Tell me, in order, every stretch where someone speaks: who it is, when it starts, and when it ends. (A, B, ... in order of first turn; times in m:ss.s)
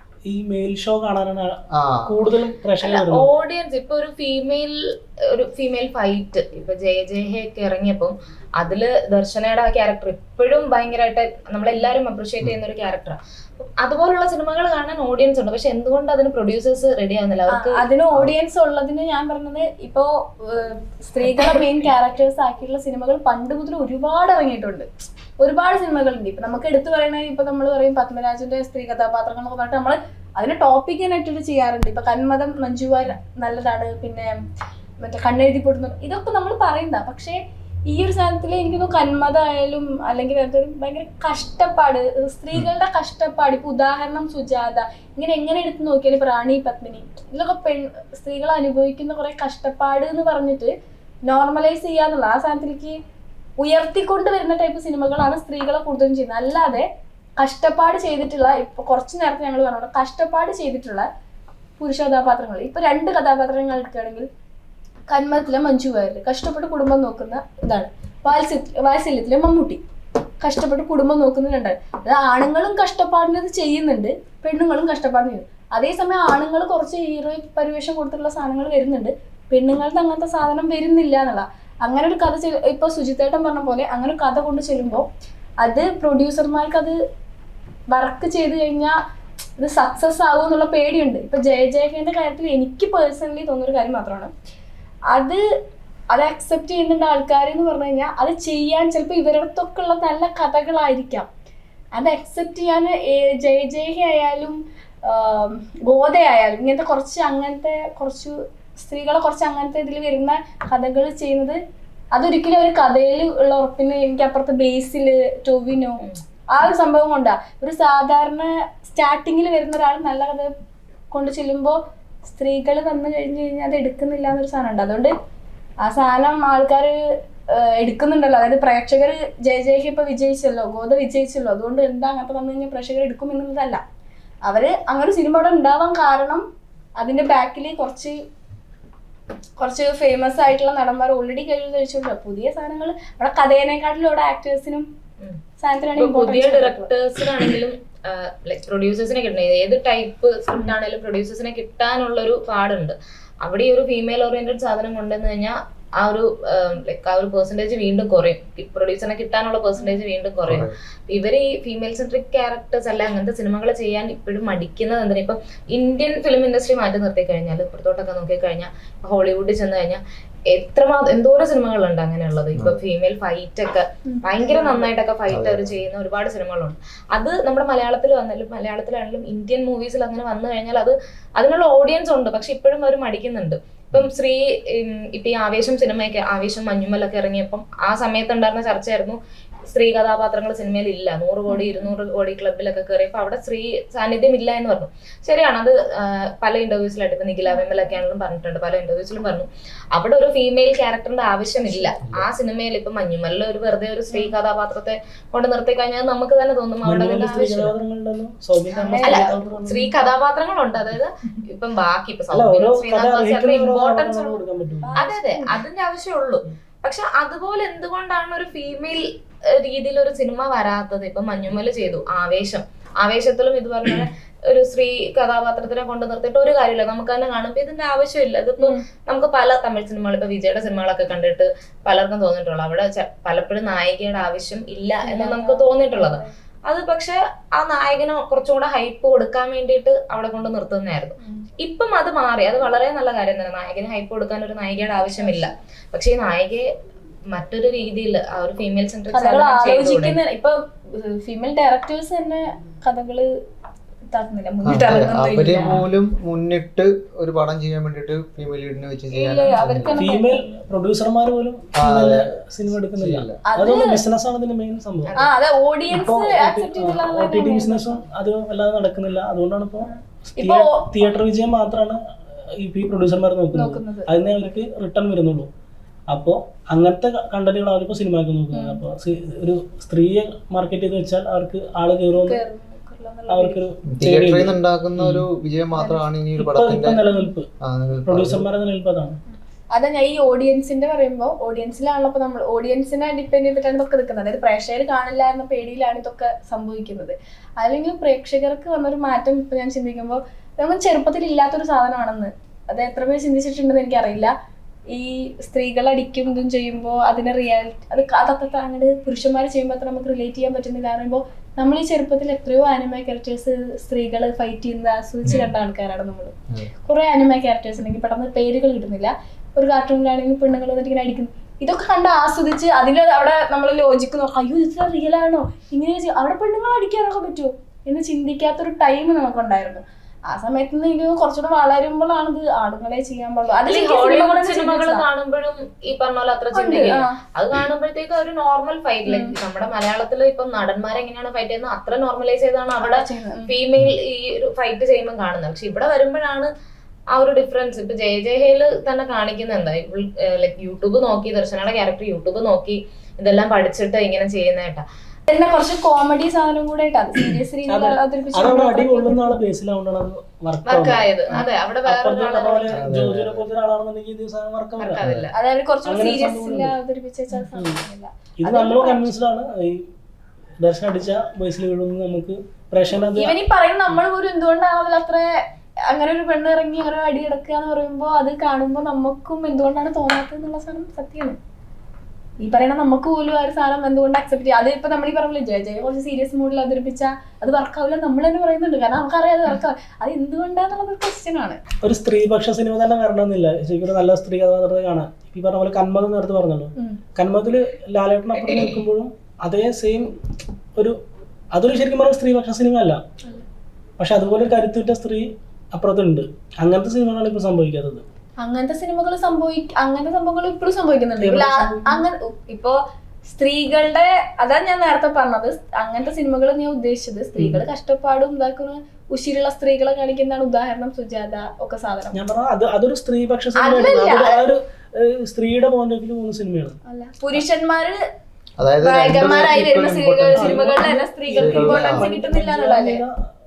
0:00.3-0:03.3 A
0:01.7-0:02.2 B
0:02.8-0:17.8 C
0:17.5-0:24.9 D
0:25.4-0:34.3 D
0:35.0-0:37.4 D
0:37.9-0:50.7 D
0:51.3-0:53.0 D
0:53.6-0:56.9 D
0:57.4-1:01.1 D
1:01.8-1:04.3 D
1:05.1-1:09.8 D
1:10.4-1:25.1 D
1:25.6-1:26.9 D
1:27.9-1:28.9 D
1:29.6-1:34.3 D
1:35.1-1:35.4 D
1:36.1-1:41.3 D
1:42.0-1:51.6 D
1:52.1-2:00.5 D
2:01.1-2:05.1 D
2:05.8-2:07.0 D
2:07.5-2:13.8 D
2:14.5-2:16.4 D
2:17.0-2:18.2 D
2:19.6-2:24.9 D
2:25.6-2:26.9 D
2:26.0-3:27.7 C
2:40.5-2:40.8 B
2:54.1-2:54.9 D
2:55.3-2:55.8 B
3:11.5-3:11.9 D
3:17.5-3:17.9 D
3:21.7-3:21.9 D
3:26.8-3:29.7 A
3:28.7-3:29.9 D
3:29.0-3:34.4 C
3:32.3-3:35.1 A
3:34.8-3:35.6 D
3:35.0-4:06.7 C
3:55.0-3:56.3 D
4:05.2-4:05.5 D
4:07.3-4:10.2 C
4:09.1-4:13.3 D
4:14.1-4:15.8 D
4:14.7-4:20.0 B
4:19.1-4:20.5 D
4:20.0-4:25.2 A
4:21.8-4:22.3 B
4:23.0-4:23.4 B
4:23.4-4:24.0 D
4:25.2-4:28.0 D
4:25.9-4:32.0 A
4:30.4-4:30.9 D
4:32.6-4:35.5 A
4:33.6-4:34.2 D
4:36.1-4:42.4 A
4:38.5-4:38.8 D
4:42.2-4:43.6 D
4:43.3-4:45.2 A
4:43.9-4:47.0 B
4:45.8-4:46.1 D
4:46.4-4:47.5 A
4:47.6-4:48.4 B
4:48.1-4:49.2 A
4:49.7-5:04.3 D
5:04.9-5:35.0 D
5:15.2-5:15.5 C
5:33.7-5:46.5 C
5:36.5-5:37.2 D
5:39.1-5:39.3 D
5:42.8-5:43.5 D
5:47.1-5:54.8 C
5:55.3-5:59.4 D
5:57.7-6:05.0 A
6:00.7-6:02.8 C
6:02.8-6:03.4 B
6:04.8-6:05.4 C
6:05.0-6:05.3 B
6:05.3-6:09.1 D
6:05.8-6:06.8 A
6:07.4-6:07.8 A
6:08.4-6:09.9 A
6:10.6-6:13.4 A
6:13.2-6:15.2 D
6:15.9-6:21.4 D
6:22.4-6:31.6 D
6:31.8-6:40.1 A
6:41.5-6:43.0 A
6:44.0-6:48.0 A
6:48.4-6:52.8 D
6:51.2-6:52.0 A
6:53.3-7:02.2 D
6:57.4-6:57.6 A
7:02.1-7:06.8 A
7:03.6-7:04.4 D
7:06.9-7:08.0 D
7:08.6-7:12.0 B
7:08.8-7:13.0 D
7:10.4-7:13.1 A